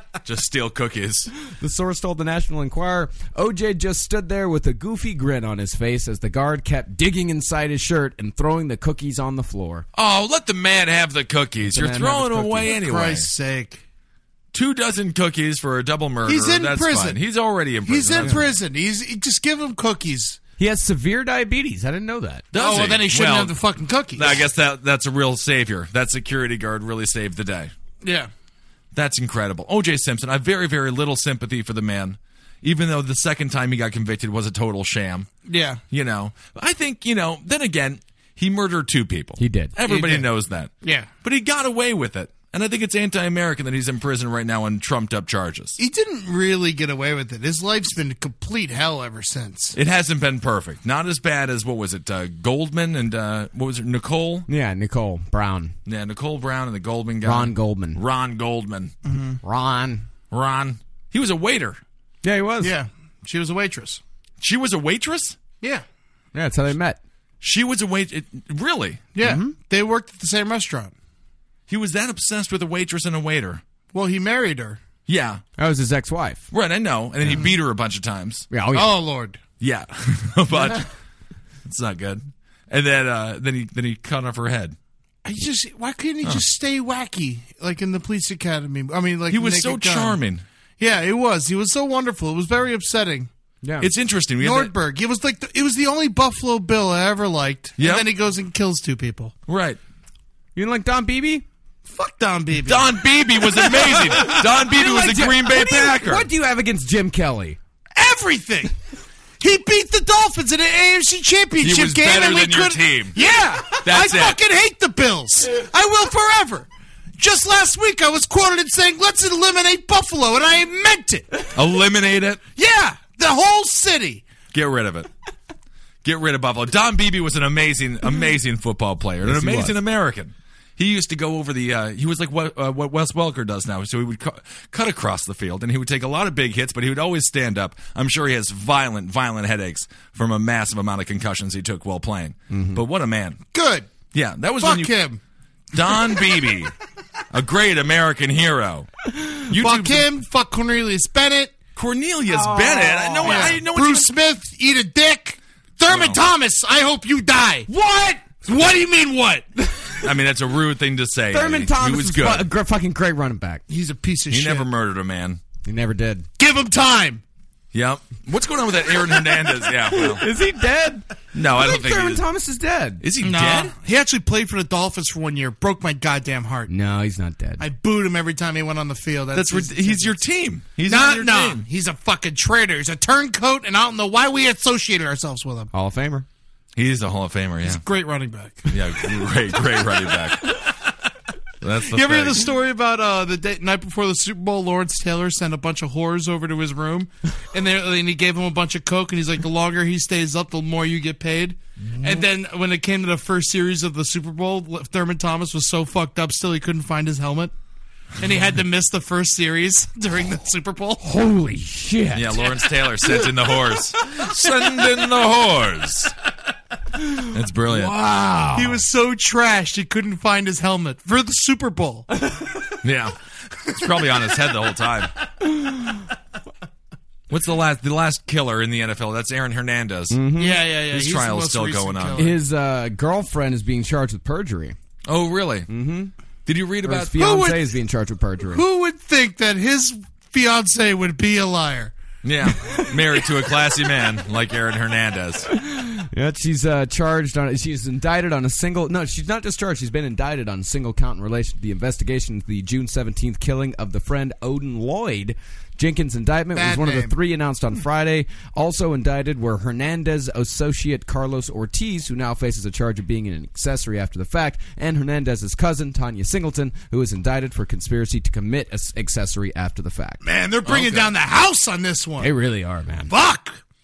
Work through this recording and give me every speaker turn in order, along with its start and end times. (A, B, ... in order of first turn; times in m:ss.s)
0:00.2-0:01.3 A
0:01.5-0:09.9 B
0:09.9-0:13.3 A
0:11.6-0:12.7 B
0:12.7-0:13.8 C
0:14.5-0:18.5 A
0:16.3-0:17.2 C
0:17.8-0:20.4 C
0:20.6-0:22.4 B
0:22.5-0:23.6 A
0:22.6-0:24.4 C
0:24.2-0:27.7 A
0:28.0-0:28.3 C
0:28.9-0:35.3 A
0:35.5-0:35.8 C
0:35.9-0:40.7 A
0:39.4-0:39.8 B
0:39.9-0:40.3 C
0:40.8-0:41.1 C
0:41.2-0:45.8 A
0:45.8-0:49.8 C
0:49.8-0:54.5 A
0:54.5-0:55.8 B
0:55.9-0:58.9 A
0:57.2-0:58.0 B
0:59.0-0:59.4 C
0:59.4-1:00.0 B
1:00.3-1:01.8 A
1:02.2-1:02.7 B
1:02.6-1:04.0 C
1:04.4-1:05.4 A
1:06.3-1:07.0 B
1:07.4-1:09.0 A
1:09.2-1:10.9 C
1:09.2-1:09.5 B
1:11.7-1:13.6 A
1:13.9-1:14.8 C
1:15.1-1:15.4 A
1:15.6-1:16.5 B
1:16.5-1:18.5 A
1:18.5-1:18.9 B
1:18.7-1:19.4 C
1:19.6-1:20.9 A
1:21.7-1:24.8 A
1:25.2-1:30.2 C
1:29.3-1:30.4 A
1:30.8-1:33.3 C
1:33.6-1:33.9 B
1:33.8-1:34.7 A
1:34.4-1:39.3 C
1:37.8-1:38.1 A
1:39.5-1:39.8 A
1:40.6-1:41.4 B
1:41.9-1:44.4 C
1:42.6-1:46.3 A
1:44.2-1:47.6 B
1:48.0-1:48.8 C
1:49.4-2:01.5 C
1:51.6-1:53.2 A
1:53.8-1:54.4 A
2:01.5-2:02.4 A
2:02.6-2:04.3 C
2:04.5-2:05.1 A
2:06.0-2:23.4 A
2:09.2-2:09.8 B
2:22.5-2:22.8 B
2:23.5-2:23.9 C
2:24.1-2:24.9 A
2:24.6-2:25.2 C
2:25.7-2:26.7 A
2:27.3-2:28.9 A
2:29.5-2:30.1 A
2:29.5-2:31.6 C
2:31.8-2:34.1 A
2:32.3-2:33.6 B
2:33.2-2:37.7 C
2:35.9-2:36.2 A
2:37.7-2:38.3 B
2:38.4-2:39.5 C
2:40.0-2:42.5 A
2:41.3-2:43.6 B
2:43.7-2:44.7 C
2:44.3-2:45.4 A
2:45.6-2:46.3 B
2:46.4-2:47.2 C
2:47.7-2:50.2 A
2:49.9-2:53.0 B
2:51.3-2:52.2 A
2:53.0-2:53.8 A
2:53.2-2:56.7 C
2:56.7-2:57.6 B
2:57.6-3:00.2 C
2:59.3-3:01.6 A
3:00.8-3:05.7 C
3:05.7-3:06.3 B
3:06.8-3:07.8 A
3:07.6-3:08.8 C
3:08.7-3:10.6 A
3:11.6-3:12.5 A
3:11.9-3:27.5 C
3:21.9-3:22.2 B
3:28.2-3:31.0 C
3:31.0-3:32.5 B
3:32.1-3:36.1 A
3:37.1-3:38.8 B
3:37.2-3:37.9 A
3:38.5-3:42.1 C
3:42.8-3:45.1 A
3:47.3-3:50.2 A
3:50.1-3:50.6 B
3:50.4-3:52.4 C
3:50.9-3:52.2 A
3:52.2-3:54.8 B
3:55.1-3:55.7 A
3:55.7-3:56.1 B
3:56.5-3:57.2 A
3:56.8-3:58.6 B
3:57.2-3:57.7 C
3:58.5-4:01.9 C
4:02.2-4:05.5 A
4:05.5-4:30.2 B
4:16.6-4:17.2 C
4:30.2-4:32.3 C
4:30.7-4:31.1 A
4:32.2-4:33.1 B
4:33.1-4:33.6 C